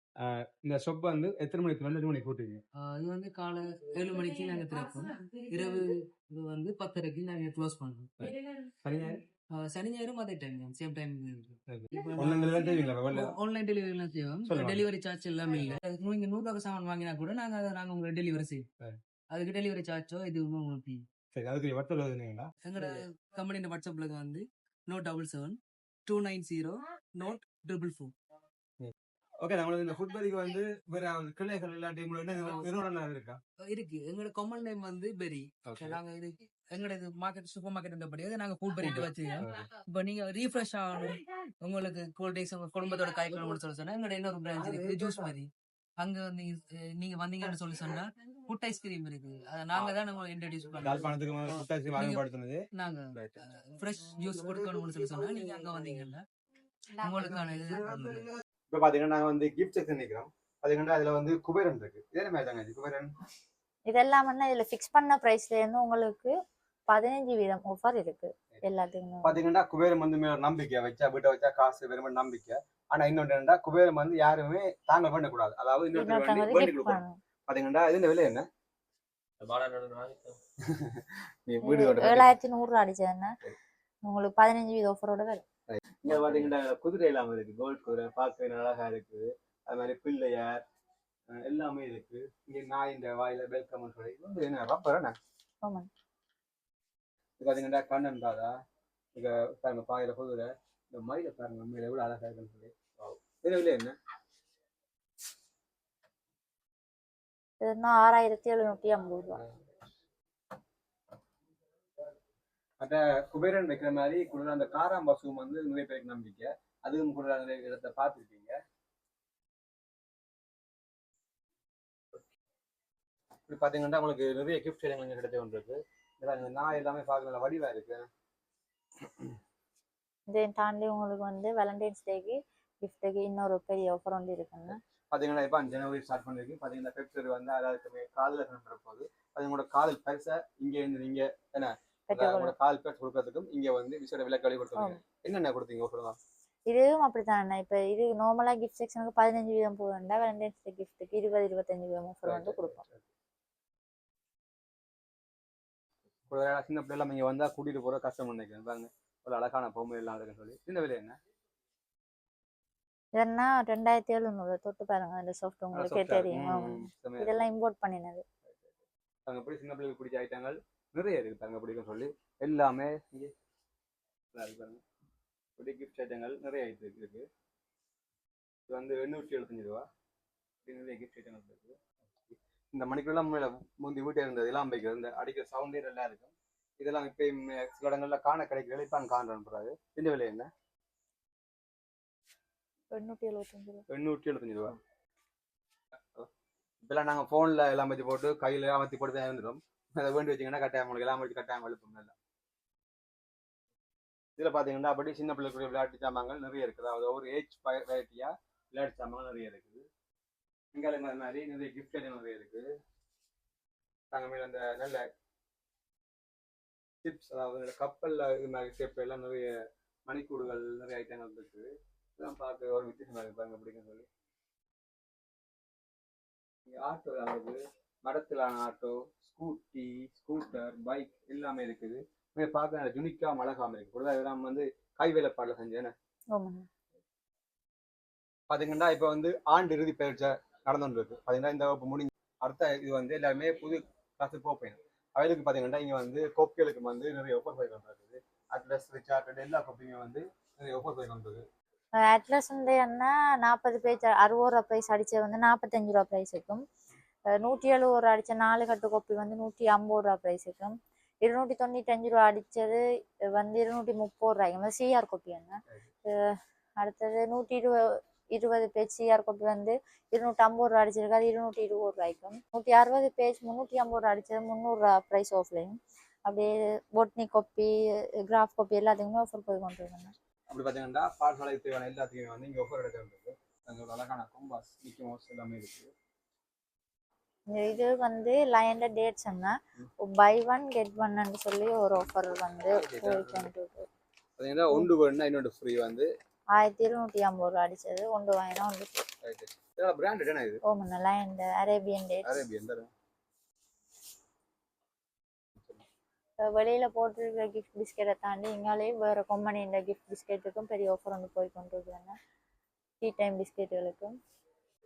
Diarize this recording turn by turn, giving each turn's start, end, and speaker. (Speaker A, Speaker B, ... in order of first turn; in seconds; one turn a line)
Speaker A: 0.2-2.6
Speaker B: 2.8-18.6
Speaker A: 8.2-9.2
Speaker A: 11.7-13.3
Speaker A: 14.4-14.8
Speaker B: 19.3-21.0
Speaker A: 21.3-23.0
Speaker B: 22.6-28.1
Speaker A: 28.8-33.4
Speaker B: 32.4-32.7
Speaker B: 33.6-52.2
Speaker A: 35.6-36.0
Speaker A: 38.8-39.7
Speaker A: 50.8-53.4
Speaker B: 52.8-56.2
Speaker B: 56.9-58.3
Speaker A: 58.7-63.1
Speaker C: 63.9-66.3
Speaker C: 66.9-69.4
Speaker A: 69.2-78.5
Speaker C: 75.9-77.2
Speaker A: 79.4-82.3
Speaker C: 81.6-83.3
Speaker C: 84.0-85.4
Speaker A: 85.7-90.6
Speaker A: 91.3-95.2
Speaker C: 95.6-95.9
Speaker A: 97.4-98.5
Speaker A: 99.1-103.9
Speaker C: 107.6-109.4
Speaker A: 109.4-109.6
Speaker A: 112.8-118.6
Speaker A: 123.5-128.1
Speaker A: 129.0-129.3
Speaker C: 130.3-134.8
Speaker A: 134.7-146.2
Speaker C: 142.1-142.5
Speaker C: 146.7-152.8
Speaker A: 152.2-153.0
Speaker A: 156.3-161.2
Speaker C: 163.1-168.2
Speaker A: 165.7-167.4
Speaker A: 168.4-168.7
Speaker A: 169.3-173.3
Speaker A: 174.3-174.8
Speaker A: 175.6-177.3
Speaker A: 178.7-179.8
Speaker A: 180.6-190.5
Speaker C: 192.9-193.8
Speaker A: 193.9-194.8
Speaker A: 196.8-202.1
Speaker A: 204.4-209.9
Speaker A: 210.7-212.7
Speaker A: 214.1-215.1
Speaker A: 217.0-219.5
Speaker A: 220.1-224.1
Speaker A: 226.7-235.9
Speaker C: 236.3-236.7
Speaker A: 238.5-251.4
Speaker C: 252.0-256.6
Speaker C: 257.3-277.7
Speaker C: 278.2-280.1
Speaker A: 280.5-285.9
Speaker C: 287.5-293.9
Speaker A: 292.7-293.5
Speaker A: 294.4-296.1
Speaker C: 296.6-299.1
Speaker A: 299.2-300.6
Speaker C: 300.6-302.4
Speaker A: 302.2-302.9
Speaker A: 305.5-305.8
Speaker C: 306.4-312.1
Speaker C: 313.0-314.2